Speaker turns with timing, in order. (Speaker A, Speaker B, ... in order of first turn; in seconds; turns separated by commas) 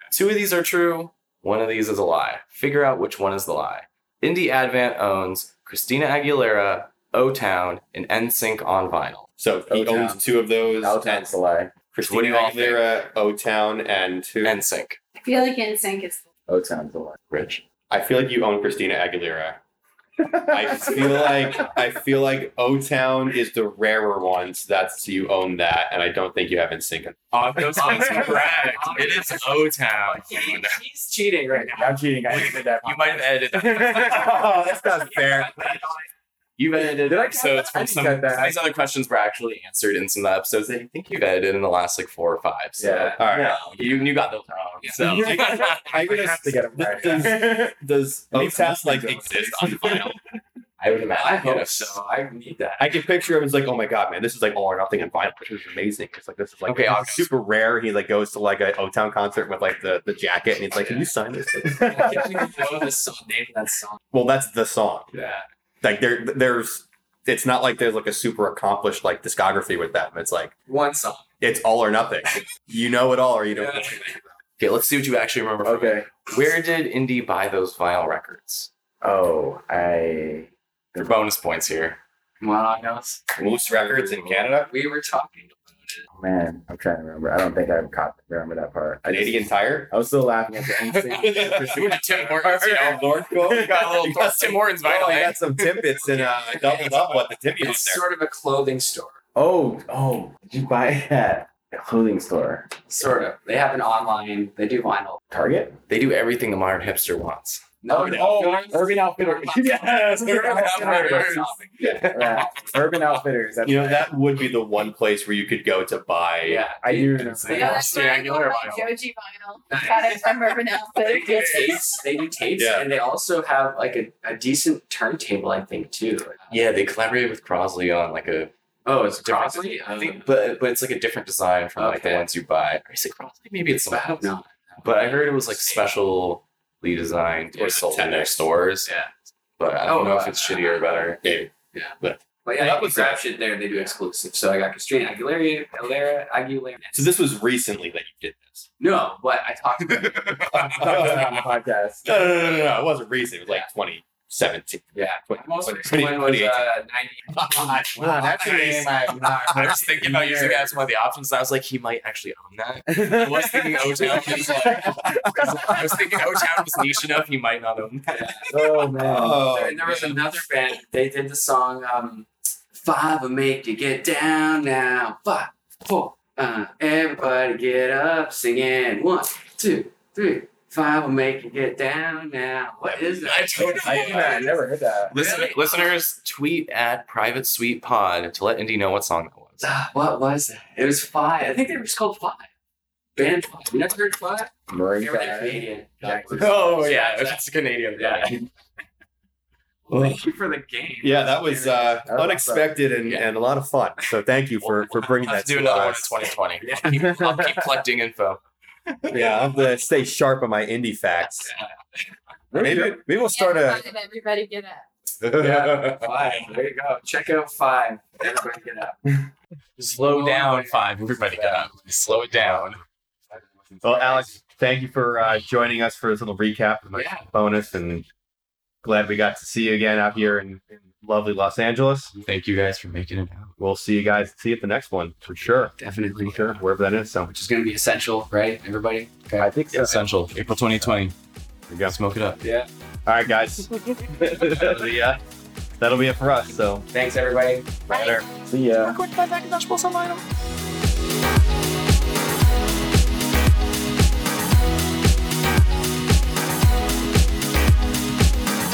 Speaker A: 0.1-9.3, Speaker B: 9.4-11.3, Speaker C: 9.7-10.2, Speaker C: 10.8-11.7, Speaker B: 11.9-14.6, Speaker A: 12.0-12.9, Speaker A: 14.4-15.0, Speaker D: 15.2-16.2, Speaker C: 16.5-17.2, Speaker A: 17.3-17.6, Speaker B: 17.9-19.6, Speaker C: 20.2-21.4, Speaker B: 20.3-27.2, Speaker A: 27.3-30.8, Speaker E: 28.1-29.5, Speaker E: 30.1-32.0, Speaker C: 31.5-34.8, Speaker A: 32.3-34.4, Speaker B: 33.9-35.7, Speaker E: 35.1-35.9, Speaker A: 36.6-46.2, Speaker C: 36.7-38.6, Speaker C: 42.8-43.3, Speaker B: 43.2-43.6, Speaker C: 45.0-47.7, Speaker B: 45.0-50.2, Speaker C: 48.3-50.1, Speaker A: 50.8-51.9, Speaker E: 51.1-52.9, Speaker B: 52.8-62.5, Speaker A: 56.6-57.3, Speaker E: 60.8-61.0, Speaker E: 61.8-64.0, Speaker B: 64.1-65.1, Speaker E: 65.1-65.4, Speaker B: 65.8-70.5, Speaker E: 70.7-71.2, Speaker B: 71.4-74.3, Speaker E: 73.5-74.1, Speaker A: 74.6-78.7, Speaker C: 75.6-76.1, Speaker C: 79.0-81.1, Speaker A: 80.9-82.0, Speaker E: 82.4-86.0, Speaker B: 83.3-84.7, Speaker C: 86.1-91.9, Speaker B: 89.1-89.9, Speaker A: 90.7-97.4, Speaker E: 91.1-91.7, Speaker B: 91.5-98.0, Speaker E: 96.1-96.9, Speaker E: 97.5-99.2, Speaker C: 99.3-102.7, Speaker E: 102.9-105.2, Speaker C: 105.3-105.8, Speaker A: 105.9-107.6, Speaker E: 107.8-112.1, Speaker C: 107.9-111.3, Speaker A: 109.6-112.5, Speaker C: 112.1-114.1, Speaker B: 113.6-116.7, Speaker E: 116.4-117.9, Speaker C: 116.8-117.9, Speaker A: 117.3-118.9, Speaker D: 117.5-122.0, Speaker E: 119.7-126.6, Speaker B: 122.6-122.8, Speaker A: 126.5-139.0, Speaker E: 128.8-130.3, Speaker E: 131.8-132.2, Speaker E: 133.9-135.9, Speaker B: 137.6-138.3, Speaker A: 139.6-141.2, Speaker E: 139.8-141.1, Speaker B: 141.2-143.2, Speaker E: 141.7-147.1, Speaker B: 146.9-148.7, Speaker E: 148.8-151.1, Speaker A: 150.0-150.4, Speaker B: 150.5-151.3, Speaker C: 150.5-152.1, Speaker B: 152.0-156.7, Speaker E: 154.9-160.4, Speaker B: 157.3-158.2, Speaker C: 157.9-160.7, Speaker A: 158.4-158.9, Speaker A: 159.4-168.3, Speaker C: 162.9-164.1, Speaker E: 164.3-164.7, Speaker E: 168.1-168.5, Speaker C: 168.5-169.4, Speaker B: 168.9-170.0, Speaker E: 169.4-184.6, Speaker A: 169.9-170.1, Speaker A: 182.8-184.5, Speaker C: 183.7-185.1, Speaker A: 185.1-189.7, Speaker E: 185.1-185.9, Speaker E: 189.6-192.5, Speaker E: 193.2-197.4, Speaker C: 194.7-196.5, Speaker A: 196.3-198.5, Speaker E: 197.9-198.4, Speaker E: 199.9-202.1, Speaker B: 201.0-206.3, Speaker C: 202.0-202.8, Speaker A: 204.6-209.2, Speaker E: 206.6-206.9, Speaker B: 209.1-211.5, Speaker E: 211.4-211.7, Speaker C: 212.5-213.0, Speaker B: 212.5-213.8, Speaker D: 213.2-214.9, Speaker A: 215.2-216.1, Speaker E: 215.3-219.2, Speaker E: 219.8-222.3, Speaker A: 219.8-222.8, Speaker E: 223.3-224.3, Speaker B: 223.8-228.1, Speaker E: 226.9-227.3, Speaker B: 228.8-232.1, Speaker A: 232.2-233.5, Speaker B: 233.6-237.3, Speaker E: 235.8-236.6, Speaker E: 237.3-239.5, Speaker C: 239.4-240.0, Speaker A: 239.7-241.1, Speaker B: 241.7-241.9, Speaker A: 241.8-242.4, Speaker E: 242.4-242.7, Speaker B: 243.1-245.2, Speaker C: 244.2-244.5, Speaker B: 245.8-246.9, Speaker E: 246.9-247.7, Speaker B: 247.9-248.2, Speaker D: 247.9-248.2, Speaker C: 248.5-249.0, Speaker A: 248.8-250.2